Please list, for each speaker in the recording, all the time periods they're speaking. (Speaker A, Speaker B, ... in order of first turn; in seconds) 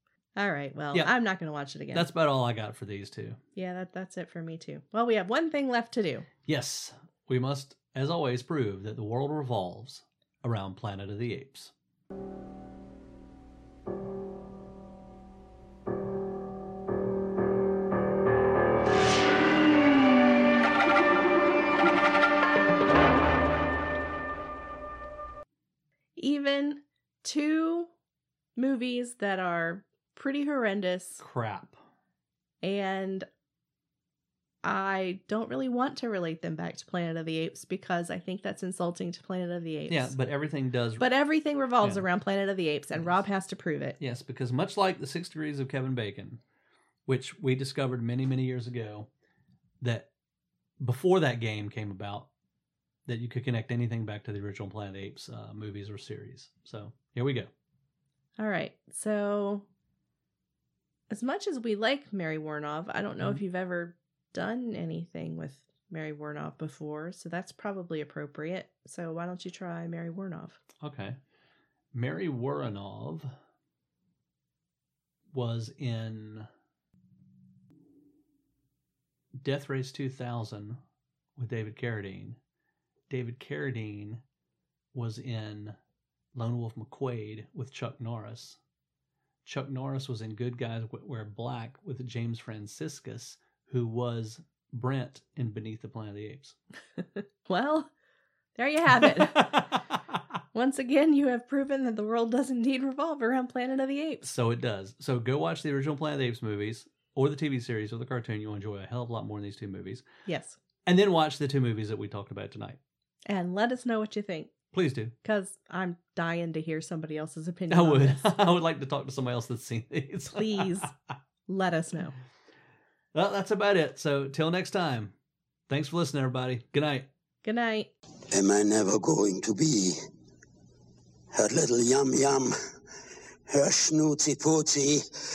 Speaker A: 0.3-2.1, 3.5-6.3, 26.1-27.9, 28.6-31.2, 32.6-33.3, 34.6-40.1, 41.0-44.0, 58.4-59.6, 61.1-70.6, 97.2-97.9, 98.5-99.6, 100.5-104.2, 110.2-110.6, 113.2-114.5, 115.2-118.3, 120.3-120.9, 121.5-122.2, 127.4-127.9
Speaker B: 1.9-3.4, 6.5-11.7, 31.2-31.8, 39.9-41.0, 44.0-46.4, 47.0-49.1, 49.8-50.1, 50.8-52.3, 53.1-57.5, 70.8-71.2, 71.9-73.3, 75.3-76.5, 79.3-80.8, 81.4-82.4, 83.1-84.2, 84.9-85.8, 86.3-88.6, 89.4-96.5, 99.0-100.0, 104.2-110.0, 110.8-112.8, 114.7-115.1, 117.7-120.9, 123.1-125.1, 125.7-127.1
Speaker C: 128.3-130.0, 131.3-132.5, 133.5-135.0